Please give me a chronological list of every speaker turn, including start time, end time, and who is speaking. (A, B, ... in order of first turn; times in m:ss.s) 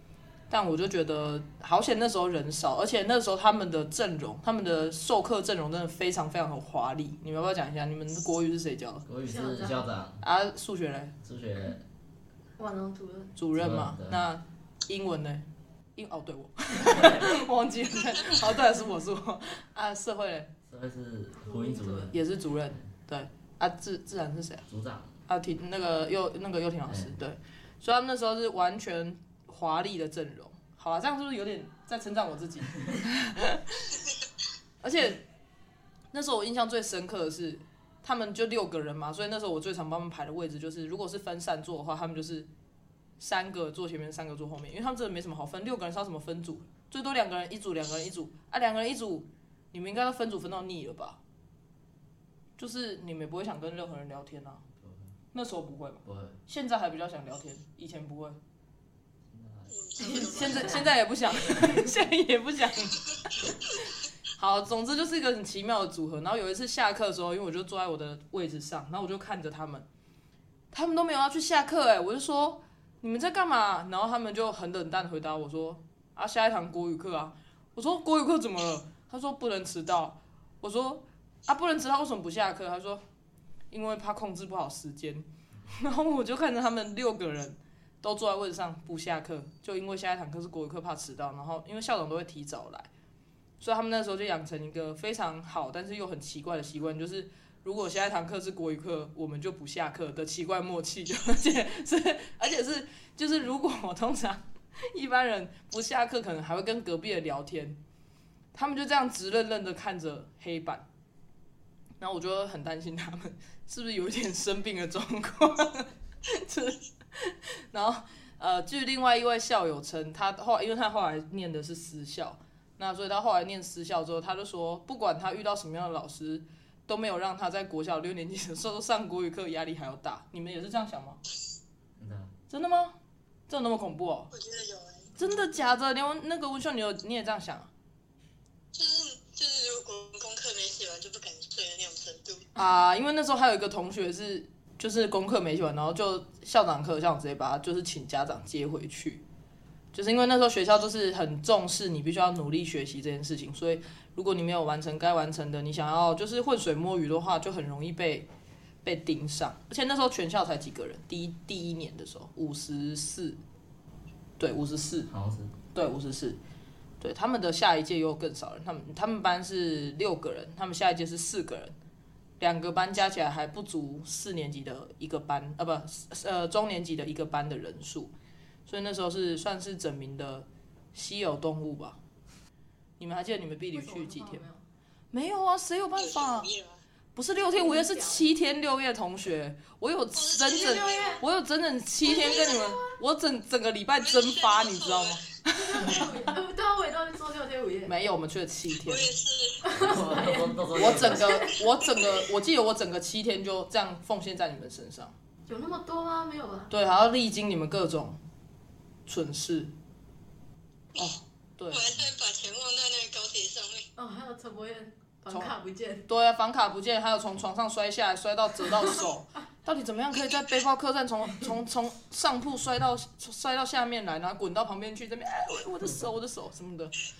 0:00.5-0:09.1 A
0:09.1-0:10.2 B
0:09.2-0:09.9 C
0:10.2-0:11.1 A
0:11.2-0:11.8 B
0:12.6-0:13.4 C
0:13.4-0:15.4 A
0:13.5-0:14.2 B
0:16.0-0:20.5 A
0:16.9-0:17.3 B
0:20.7-0:22.2 B
0:21.4-0:22.1 C
0:22.1-0:24.6 A
0:24.7-0:25.1 B
0:25.3-0:33.9 A
0:34.8-0:35.2 A
0:36.1-0:42.5 A
0:43.2-0:51.2 A
0:52.6-0:54.6 A
0:54.8-0:55.1 B
0:55.3-0:58.4 A
0:56.0-0:56.4 B
0:59.3-1:02.0 B
0:59.7-1:00.6 D
1:00.0-1:00.8 C
1:00.0-1:03.0 A
1:04.4-1:09.9 A
1:10.7-1:23.0 A
1:23.7-1:32.9 A
1:33.6-1:47.8 A
1:48.5-1:50.8 A
1:52.0-2:11.2 A
2:12.0-2:12.3 B
2:12.5-2:13.0 A
2:13.5-2:14.3 A
2:14.3-2:15.1 D
2:15.2-2:17.7 A
2:18.7-2:22.5 D
2:22.6-2:29.2 A
2:29.9-2:38.3 A
2:38.8-2:43.4 A
2:44.4-2:45.1 A
2:45.1-2:45.6 B
2:45.7-2:46.4 A
2:47.0-2:51.8 A
2:52.4-2:58.1 A
2:58.7-3:02.0 A
3:03.0-3:04.4 A
3:03.7-3:04.6 C
3:05.1-3:06.5 A
3:06.0-3:06.8 D
3:07.2-3:16.1 A
3:07.4-3:08.3 C
3:10.2-3:11.2 D
3:10.5-3:11.2 C
3:12.0-3:13.0 C
3:12.1-3:12.6 D
3:14.0-3:15.2 D
3:15.6-3:17.9 C
3:17.9-3:19.1 A
3:18.9-3:19.6 D
3:19.6-3:21.7 C
3:19.7-3:21.4 B
3:20.7-3:25.1 A
3:25.5-3:26.7 C
3:26.7-3:28.2 A
3:29.1-3:29.7 A
3:31.0-3:31.9 A
3:31.7-3:33.9 D
3:34.0-3:36.1 C
3:35.3-3:35.5 A
3:36.1-3:46.9 A